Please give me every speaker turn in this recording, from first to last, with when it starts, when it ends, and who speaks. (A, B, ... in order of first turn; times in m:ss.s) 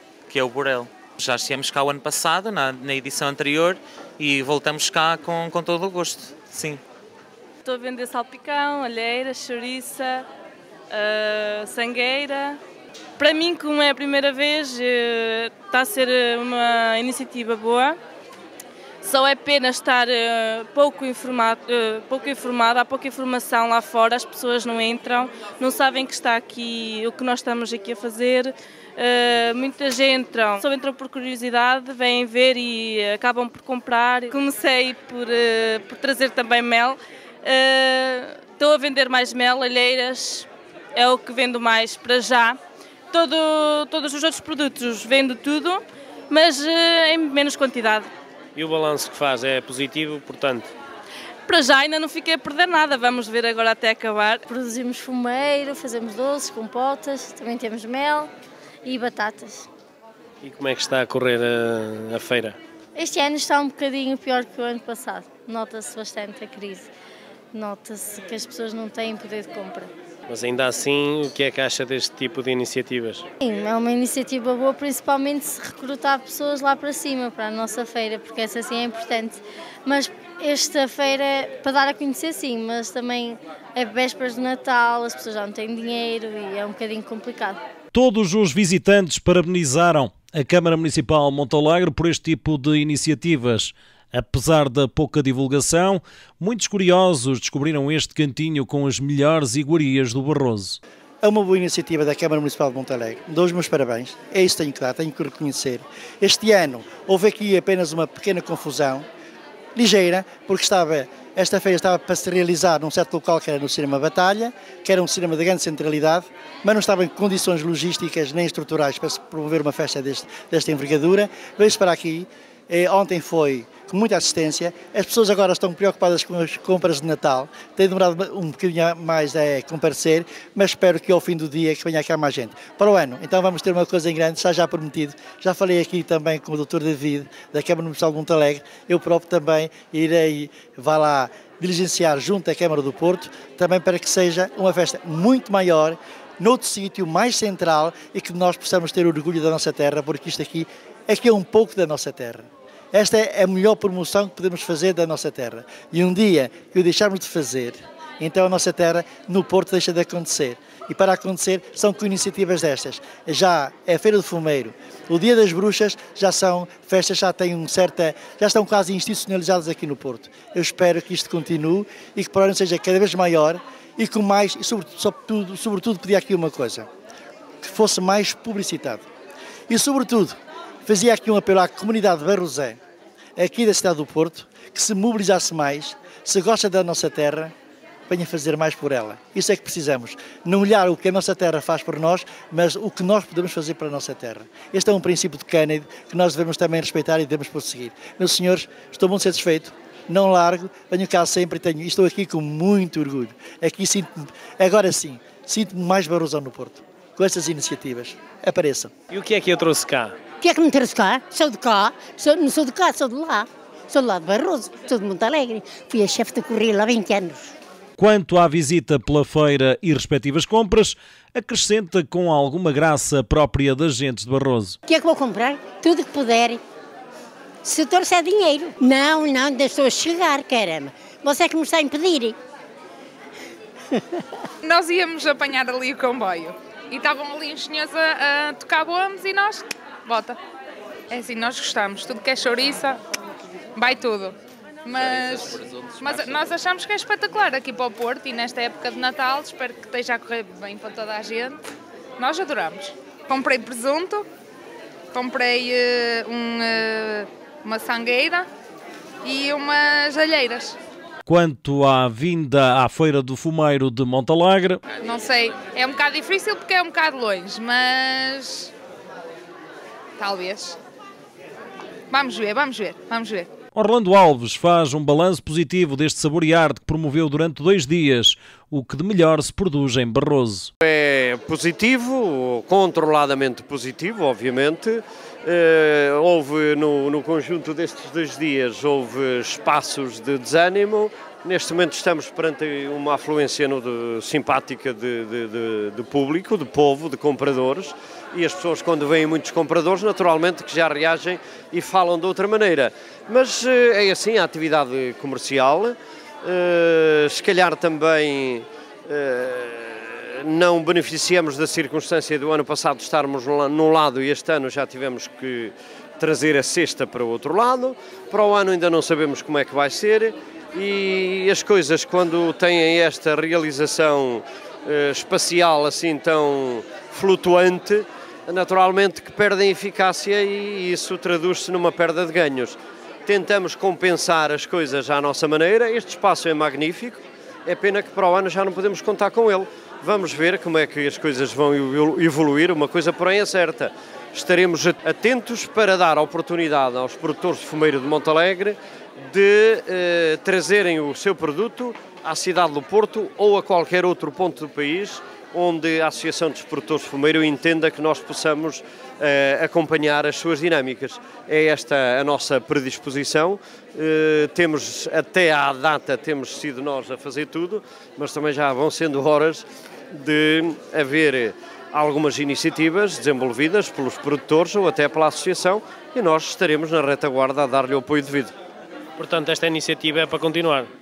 0:00.3-0:06.8 A
0:07.6-0:10.2 B
0:10.9-0:12.6 B
0:13.2-0:18.0 B
0:19.0-0:42.6 B
0:43.1-0:48.1 B
0:48.6-0:50.7 C
0:51.5-0:54.4 B
0:54.5-0:58.3 D
0:58.8-0:59.7 D
1:00.4-1:02.6 C
1:03.0-1:06.9 D
1:07.5-1:09.9 D
1:10.3-1:13.2 C
1:13.4-1:27.6 D
1:27.9-1:40.8 E
1:41.2-1:49.1 F
1:49.8-2:56.9 F
2:57.6-2:59.0 F
2:59.7-3:02.8 F
3:03.4-3:07.5 F
3:08.1-3:28.9 F
3:29.1-3:30.1 C
3:30.4-3:37.5 G
3:38.0-3:44.8 E
3:44.9-3:46.6 G
3:47.6-3:52.4 G
3:54.6-4:00.4 H
4:01.1-4:03.0 H
4:03.8-4:11.6 H
4:12.2-4:14.3 H
4:15.1-4:18.5 H
4:19.2-4:20.8 H
4:21.2-4:24.8 E
4:25.0-4:28.7 H
4:30.2-4:30.8 H
4:32.1-4:33.5 H
4:33.7-4:40.7 E
4:40.8-6:18.5 I
6:19.2-6:20.9 C